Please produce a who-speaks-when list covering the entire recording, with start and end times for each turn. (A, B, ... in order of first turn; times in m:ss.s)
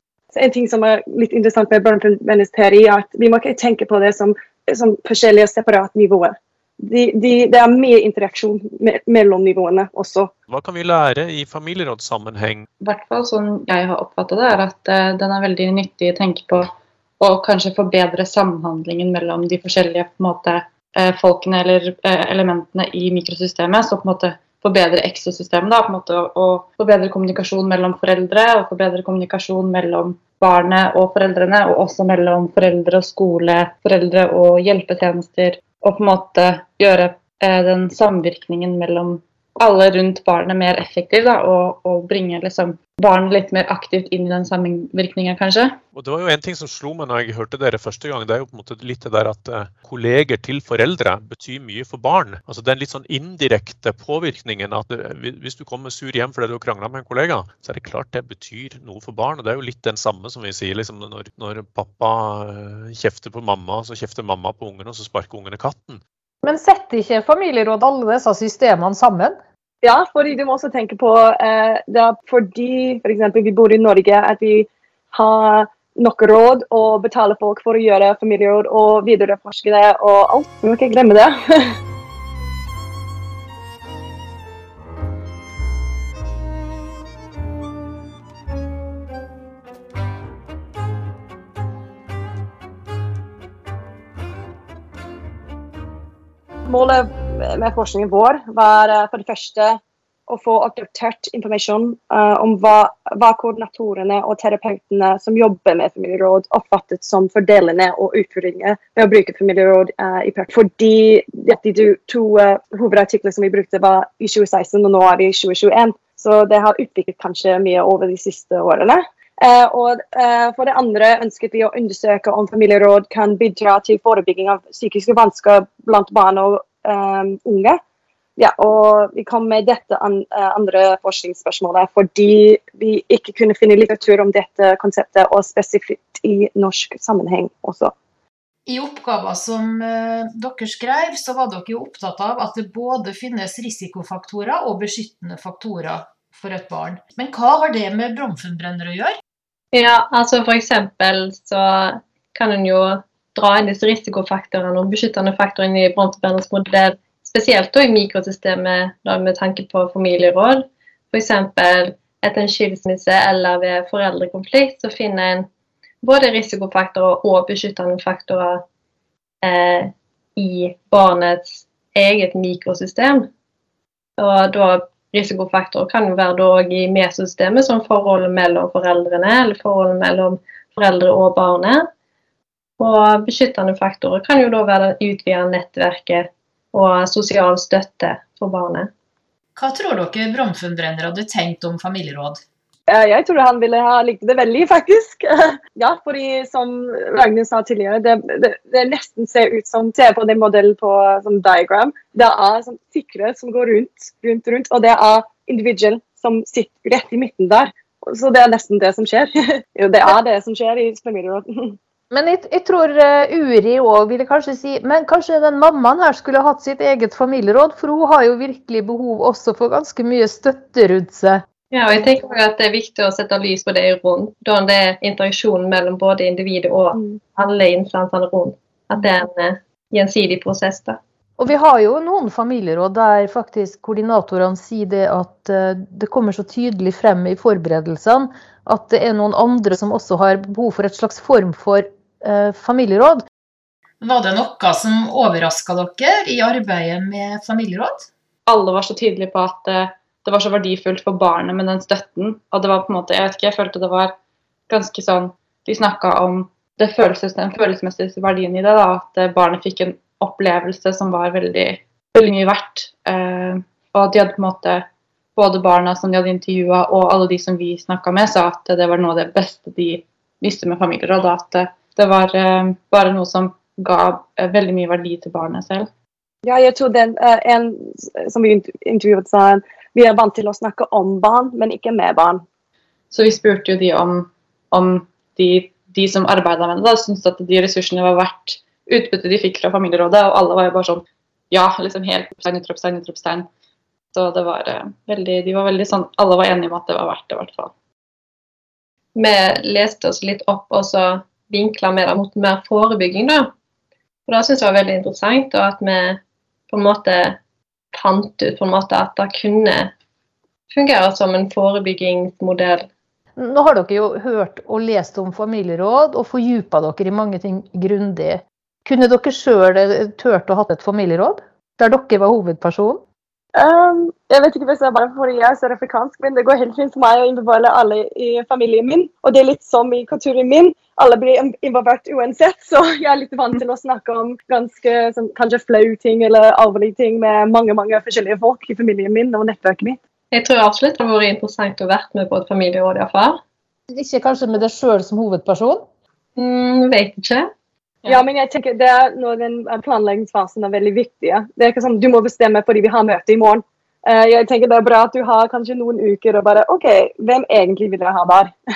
0:00.3-0:10.3 A
0:10.5-0:12.7 B
0:12.8-0:45.8 C
0:46.0-1:06.0 B
1:06.4-1:09.4 D
1:09.8-1:21.8 A
1:36.7-2:07.8 A
2:08.4-2:17.9 A
2:18.7-2:29.2 E
2:18.7-2:20.0 D
2:21.3-2:22.5 D
2:23.2-2:23.5 D
2:24.0-2:25.4 D
2:26.3-2:27.0 D
2:29.7-2:45.5 F
2:46.0-2:48.6 F
2:49.4-2:53.3 F
2:54.2-3:01.8 F
3:02.8-3:08.9 F
3:09.6-3:12.2 E
3:09.9-3:12.4 D
3:12.9-3:31.8 A
3:32.1-3:41.4 D
3:41.7-3:51.0 F
3:51.4-4:03.2 D
4:04.0-4:08.1 D
4:04.1-4:07.9 E
4:08.5-4:14.1 C
4:14.7-4:24.8 C
4:25.4-4:35.9 C
4:36.4-4:42.4 A
4:43.1-4:53.5 C
4:54.1-4:57.7 C
4:59.2-5:03.5 F
5:04.3-5:07.4 F
5:07.9-5:09.9 F
5:10.7-5:12.9 F
5:13.4-5:23.0 D
5:23.6-5:40.0 A
5:40.3-5:43.4 F
5:43.9-5:45.8 D
5:46.4-5:47.5 F
5:48.0-5:58.5 A